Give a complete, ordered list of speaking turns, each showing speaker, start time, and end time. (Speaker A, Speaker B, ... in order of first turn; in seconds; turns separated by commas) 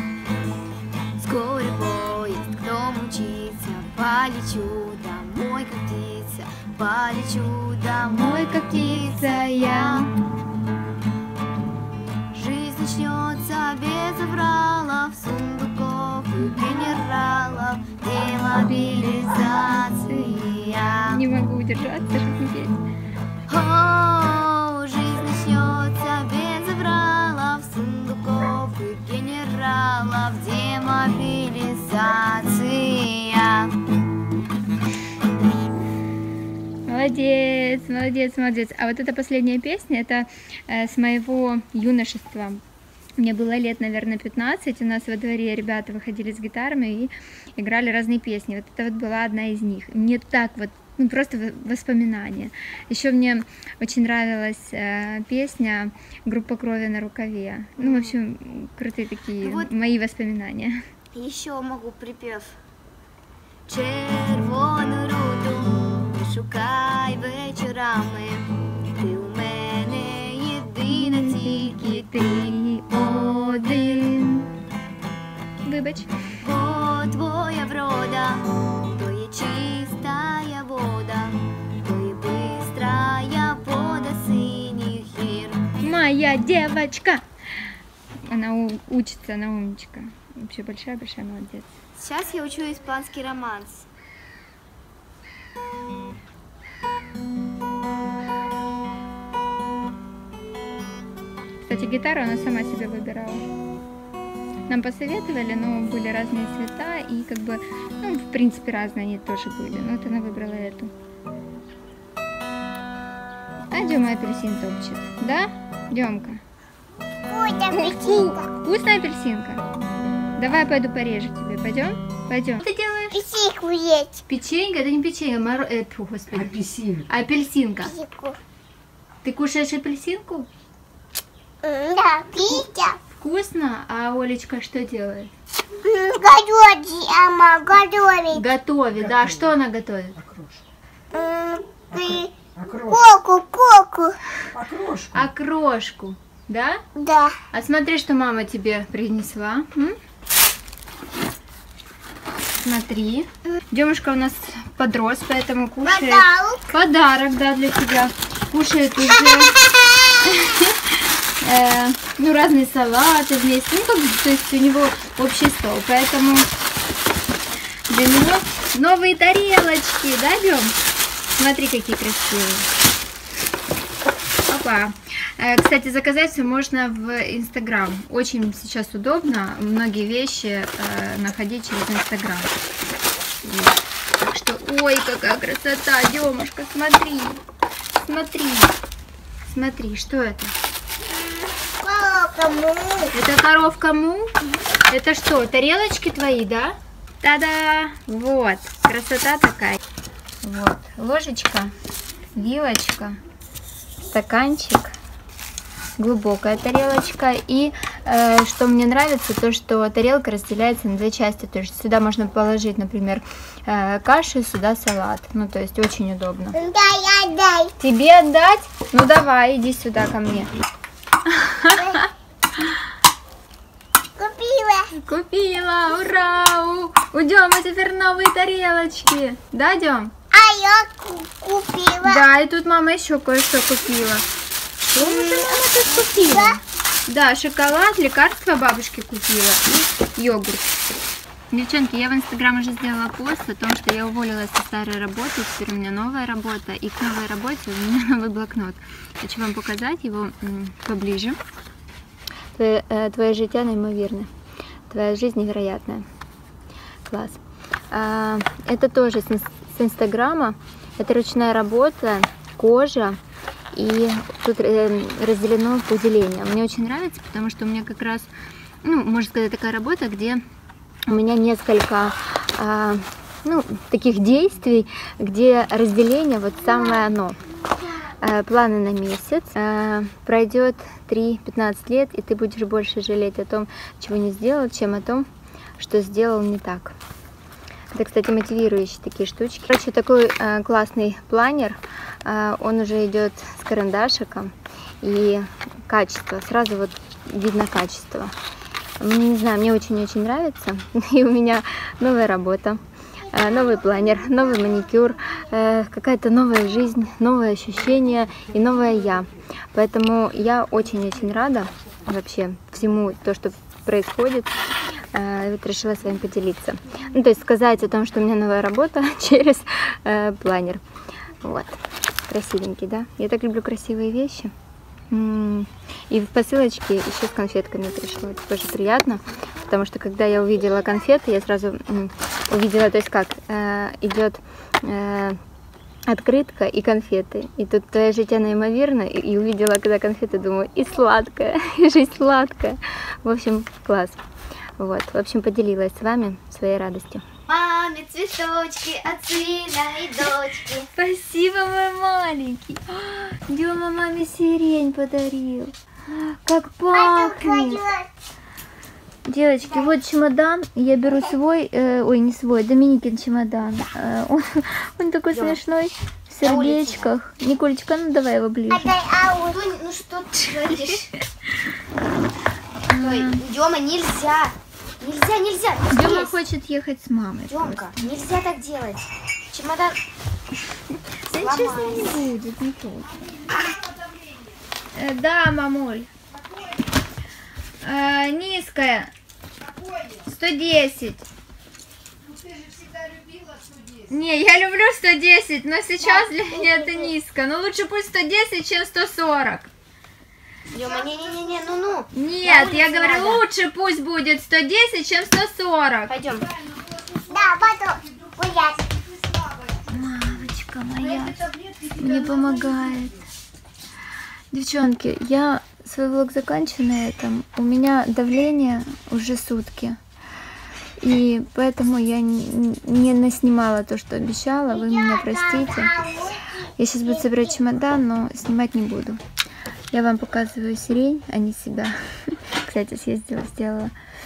Speaker A: 1.2-10.1, Speaker B: 8.1-10.1, Speaker A: 12.3-21.2, Speaker B: 16.4-16.8, Speaker B: 18.5-22.8, Speaker A: 23.5-33.8, Speaker B: 36.9-42.6, Speaker B: 43.2-60.9, Speaker A: 57.8-58.1, Speaker A: 59.4-59.7, Speaker A: 61.1-62.6, Speaker A: 63.7-74.2, Speaker B: 70.9-74.5, Speaker B: 75.6-76.1, Speaker A: 76.4-85.7, Speaker B: 85.8-87.2, Speaker B: 88.3-91.7, Speaker A: 92.0-93.9, Speaker B: 101.7-103.5, Speaker B: 104.7-110.9, Speaker B: 113.7-116.4, Speaker C: 117.2-118.5, Speaker B: 117.7-119.6, Speaker B: 120.4-123.2, Speaker C: 123.1-124.2, Speaker B: 124.3-127.9, Speaker C: 127.8-128.4, Speaker B: 129.2-130.5, Speaker C: 131.6-133.0, Speaker B: 133.2-135.3, Speaker C: 135.8-138.4, Speaker B: 138.3-140.2, Speaker C: 141.1-144.2, Speaker B: 145.1-146.8, Speaker C: 146.9-147.4, Speaker B: 147.5-150.0, Speaker B: 152.6-159.6, Speaker C: 155.8-156.7, Speaker B: 160.2-166.5, Speaker B: 167.9-170.8, Speaker B: 171.4-172.7, Speaker B: 174.5-182.5, Speaker B: 183.4-187.4, Speaker B: 188.1-188.7, Speaker B: 189.5-190.6, Speaker C: 191.1-193.1, Speaker B: 193.1-194.3, Speaker B: 194.9-199.8, Speaker B: 200.4-201.7, Speaker B: 202.3-203.2, Speaker B: 204.1-205.0, Speaker B: 206.0-216.6, Speaker C: 216.5-217.7, Speaker B: 217.8-220.5, Speaker B: 221.3-222.1, Speaker C: 221.7-222.1, Speaker C: 224.2-224.9, Speaker B: 224.9-230.1, Speaker C: 230.3-232.2, Speaker B: 232.0-234.2, Speaker B: 234.9-240.7, Speaker C: 235.0-235.6, Speaker C: 236.2-236.6, Speaker B: 241.5-251.4, Speaker B: 252.6-254.3, Speaker B: 254.9-256.1, Speaker B: 257.1-263.2, Speaker B: 263.7-268.3, Speaker B: 268.8-270.4, Speaker B: 271.1-277.4, Speaker B: 278.2-285.3, Speaker B: 285.8-287.0, Speaker B: 287.9-298.4, Speaker B: 299.0-314.6, Speaker C: 303.4-304.3, Speaker B: 315.1-320.8, Speaker B: 321.4-324.5, Speaker B: 325.1-335.4, Speaker B: 336.1-344.2, Speaker B: 344.8-347.3, Speaker A: 347.5-350.9, Speaker B: 350.9-357.8, Speaker C: 356.9-358.1, Speaker B: 359.3-368.9, Speaker A: 365.3-365.6, Speaker A: 366.4-367.1, Speaker C: 368.7-369.6, Speaker A: 369.4-371.1, Speaker B: 372.9-373.4, Speaker A: 373.0-376.4, Speaker B: 375.9-377.9, Speaker A: 377.5-380.0, Speaker B: 381.3-383.1, Speaker A: 381.3-382.2, Speaker B: 384.9-386.1, Speaker B: 387.8-389.1, Speaker B: 390.2-391.3, Speaker B: 394.1-399.7, Speaker A: 396.7-397.0, Speaker A: 400.7-403.4, Speaker B: 402.1-406.1, Speaker A: 406.1-406.5, Speaker C: 407.3-408.9, Speaker B: 409.9-413.2, Speaker B: 414.5-420.0, Speaker B: 421.0-425.9, Speaker C: 424.7-427.5, Speaker B: 426.8-429.2, Speaker B: 429.9-433.9